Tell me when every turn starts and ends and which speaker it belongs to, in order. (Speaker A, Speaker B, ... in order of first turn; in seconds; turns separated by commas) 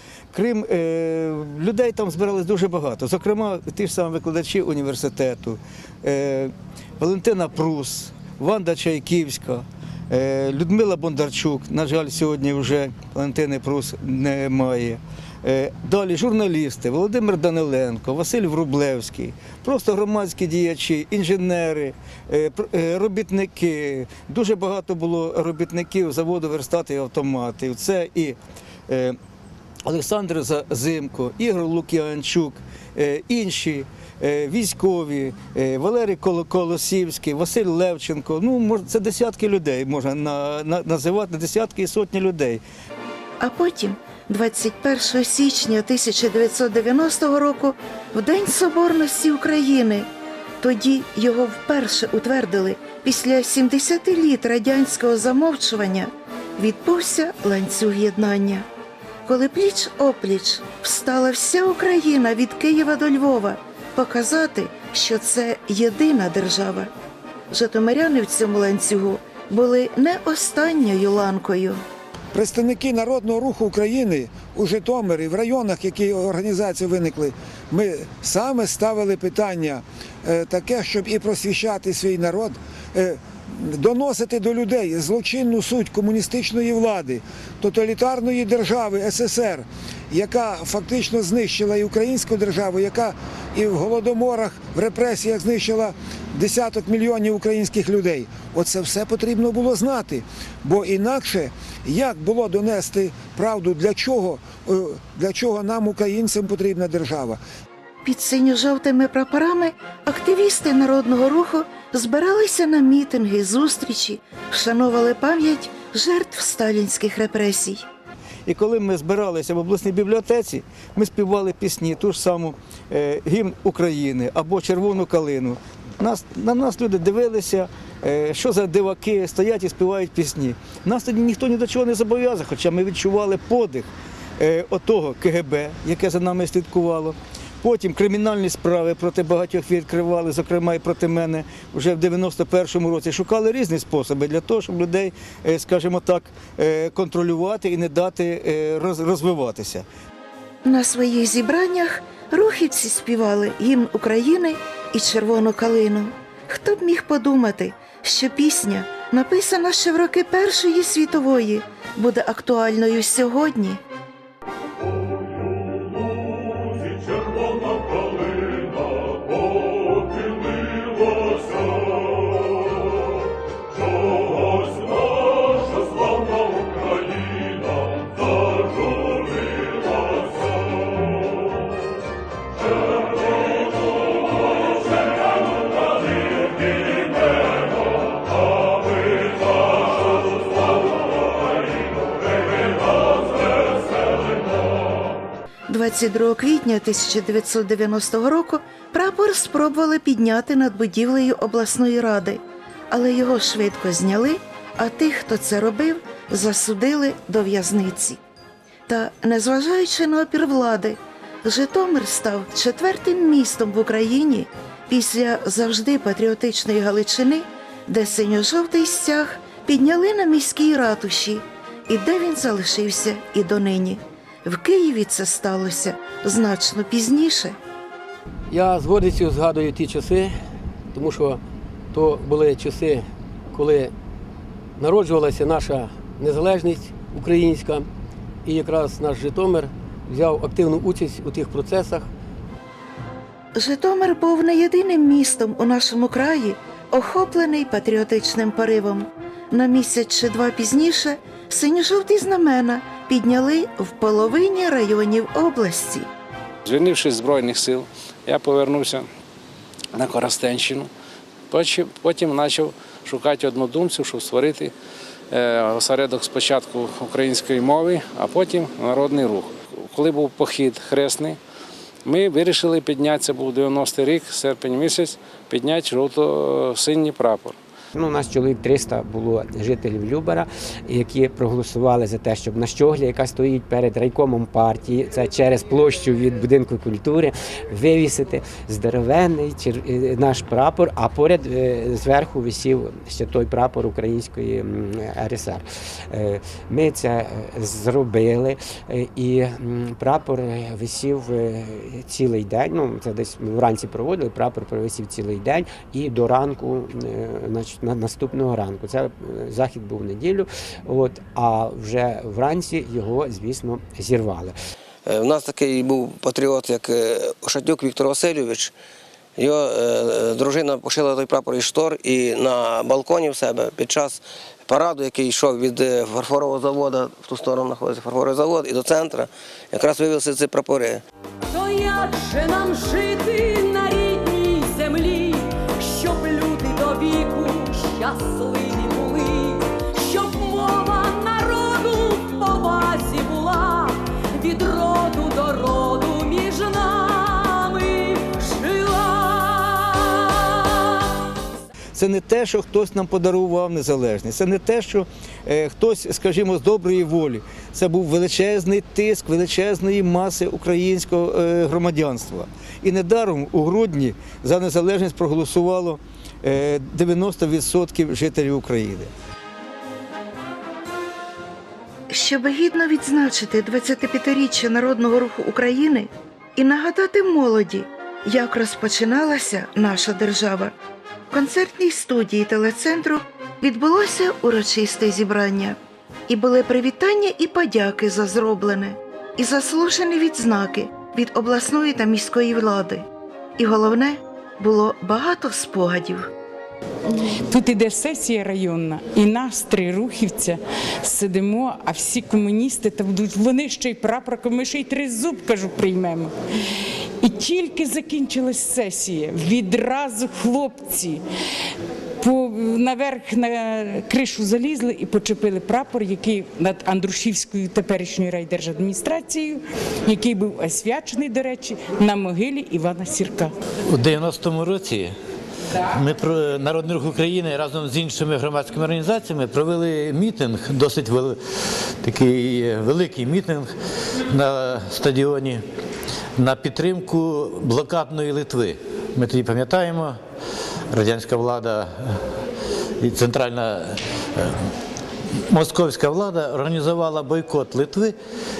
Speaker A: 0.3-29.2, Speaker A: 29.9-42.6, Speaker B: 43.4-50.1, Speaker B: 50.6-58.6, Speaker B: 59.2-66.9, Speaker B: 67.5-71.8, Speaker C: 72.3-107.4, Speaker B: 108.0-117.8, Speaker A: 118.5-133.8, Speaker A: 134.4-149.8, Speaker B: 150.6-163.8, Speaker B: 195.7-208.2, Speaker B: 208.9-227.6, Speaker D: 228.5-230.4, Speaker D: 230.9-231.4, Speaker D: 231.9-233.9, Speaker D: 234.8-237.9, Speaker D: 238.4-242.1, Speaker B: 243.5-256.1, Speaker E: 256.6-259.1, Speaker E: 259.9-260.9, Speaker E: 261.5-264.7, Speaker E: 265.3-271.4, Speaker E: 272.0-277.6, Speaker F: 277.9-314.5, Speaker G: 315.1-318.7, Speaker G: 319.4-331.0, Speaker H: 331.5-350.9, Speaker A: 351.9-369.1, Speaker B: 372.1-380.7, Speaker B: 381.3-393.0, Speaker B: 393.6-396.3, Speaker I: 397.2-406.3, Speaker I: 407.2-411.2, Speaker I: 412.2-423.5, Speaker J: 423.9-425.1, Speaker J: 425.8-431.4, Speaker J: 432.0-435.6, Speaker J: 436.4-440.2, Speaker J: 440.9-442.2, Speaker J: 443.0-444.6, Speaker J: 445.5-448.1